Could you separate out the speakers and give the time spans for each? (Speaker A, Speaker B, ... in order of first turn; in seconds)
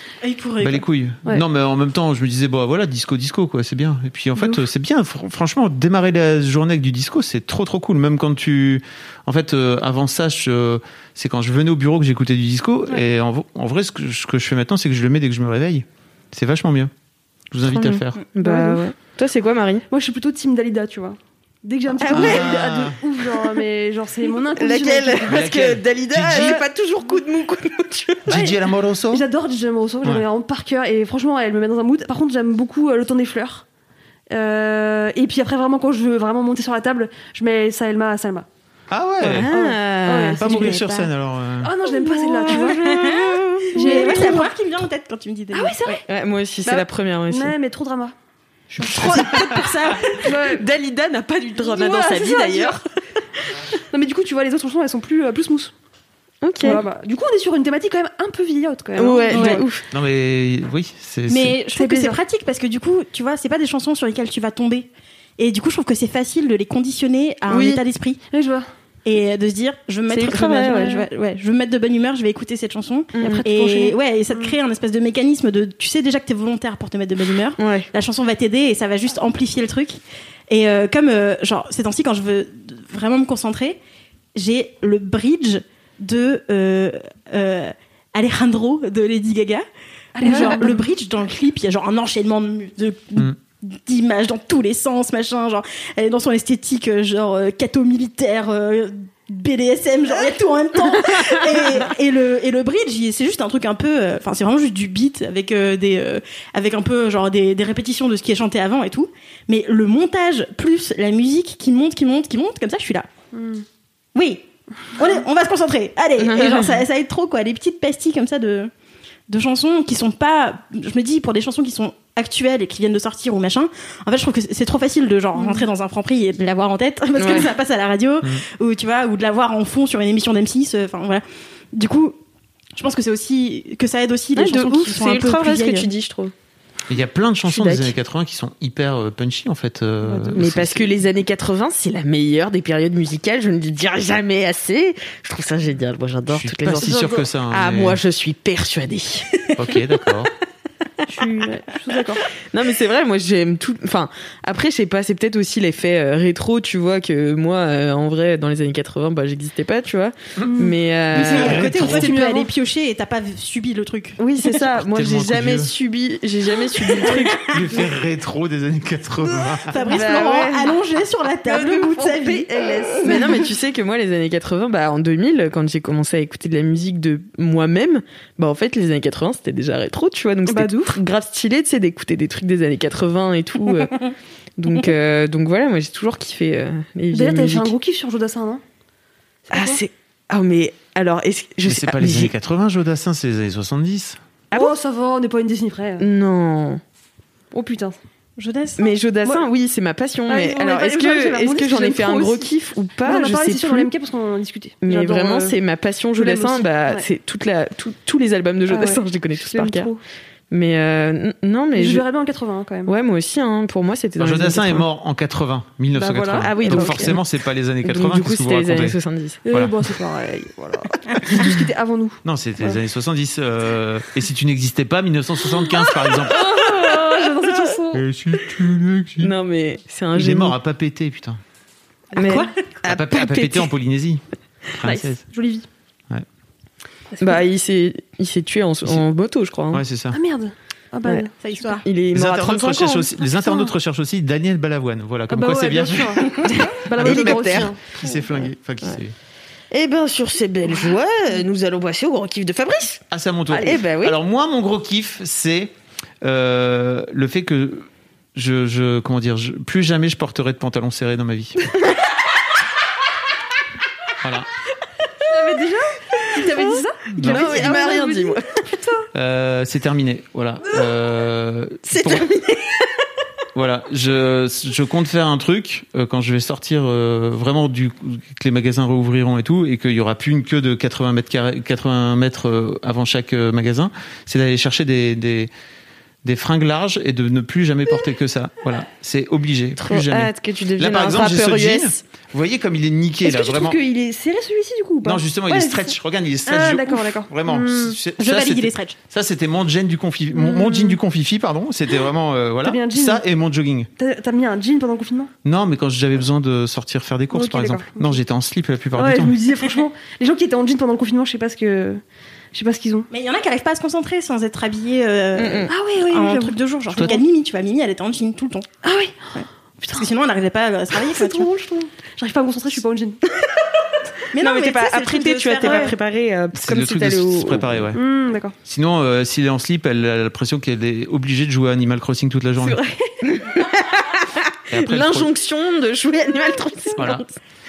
Speaker A: 0.2-0.9, 42.0-46.0, 48.8-50.3, 59.3-59.6, 61.3-68.2, 69.0-83.8, 84.3-89.7, 90.2-113.1, 114.2-118.7, 119.3-132.2, 132.8-135.9, 161.3-164.2, 167.0-167.8, 169.3-172.5, 183.8-184.1, 198.4-198.8, 232.2-232.6, 241.4-241.8, 298.2-298.9, 313.1-318.7, 319.4-321.5, 324.3-325.9
Speaker B: 0.6-16.9, 17.5-18.2, 22.1-23.0, 25.3-26.6, 28.3-29.2, 38.9-39.5, 40.4-41.7, 59.9-61.6, 136.9-140.9, 146.3-148.0, 149.6-150.3, 161.1-162.1, 164.5-165.7, 167.5-169.7, 191.7-194.2, 214.2-219.0, 219.5-219.9, 221.3-221.6, 222.2-226.4, 227.9-229.3, 230.2-231.4, 232.8-235.2, 239.7-240.2, 242.1-249.2, 253.1-261.6, 264.2-264.5, 267.1-267.8, 269.1-272.3, 273.6-285.5, 286.2-293.8, 295.0-303.9, 305.4-309.4, 317.0-317.2, 326.6-328.0, 328.7-332.8, 334.7-335.3, 337.0-337.2
Speaker C: 4.4-4.6, 18.4-18.9, 19.9-25.5, 26.3-26.6, 28.3-28.5, 29.1-33.6, 34.3-38.5, 39.5-41.0, 41.6-43.1, 43.8-44.5, 45.5-46.0, 46.6-48.1, 48.8-49.5, 50.1-50.6, 51.6-52.8, 53.9-55.7, 56.6-59.6, 61.8-62.2, 68.3-68.7, 73.2-74.5, 90.2-90.9, 113.3-113.6, 140.0-140.4, 146.8-147.2, 151.1-152.2, 160.5-162.5, 171.5-172.3, 173.0-173.4, 180.5-181.0, 187.1-188.6, 189.5-189.8, 194.5-196.1, 197.5-198.0, 200.3-202.5, 203.0-205.6, 206.2-207.1, 208.7-210.0, 211.8-212.9, 215.9-217.1, 219.5-222.8, 226.1-228.0, 234.8-235.7, 237.2-237.4, 240.1-241.8, 243.4-243.7, 245.3-248.5, 265.3-269.1, 293.2-298.0, 300.3-301.0, 302.6-303.2, 304.0-305.3, 307.3-308.2, 308.9-312.0, 312.5-313.1, 315.7-316.6, 318.8-320.1, 321.0-323.2, 327.9-328.6
Speaker D: 17.7-19.9, 22.0-22.6, 24.6-28.4, 39.2-41.1, 42.4-44.4, 46.1-47.5, 48.8-49.6, 50.3-52.8, 56.4-56.8, 59.0-59.8, 67.5-67.8, 70.1-71.0, 73.2-73.5, 77.6-77.9, 116.2-116.8, 127.2-127.5, 134.3-136.3, 137.5-137.9, 140.3-149.3, 152.5-161.7, 164.2-167.6, 169.8-170.8, 171.5-183.9, 184.6-187.8, 189.5-192.3, 194.5-194.8, 196.0-196.8, 198.8-203.9, 204.8-209.9, 210.5-212.0, 212.9-214.8, 216.4-217.2, 217.8-219.4, 229.2-230.6, 232.2-233.7, 237.2-239.8, 241.8-243.1, 246.4-247.7, 249.7-254.2, 267.1-268.4, 271.9-272.9, 289.8-292.0, 315.4-315.7, 324.4-327.8, 332.6-337.4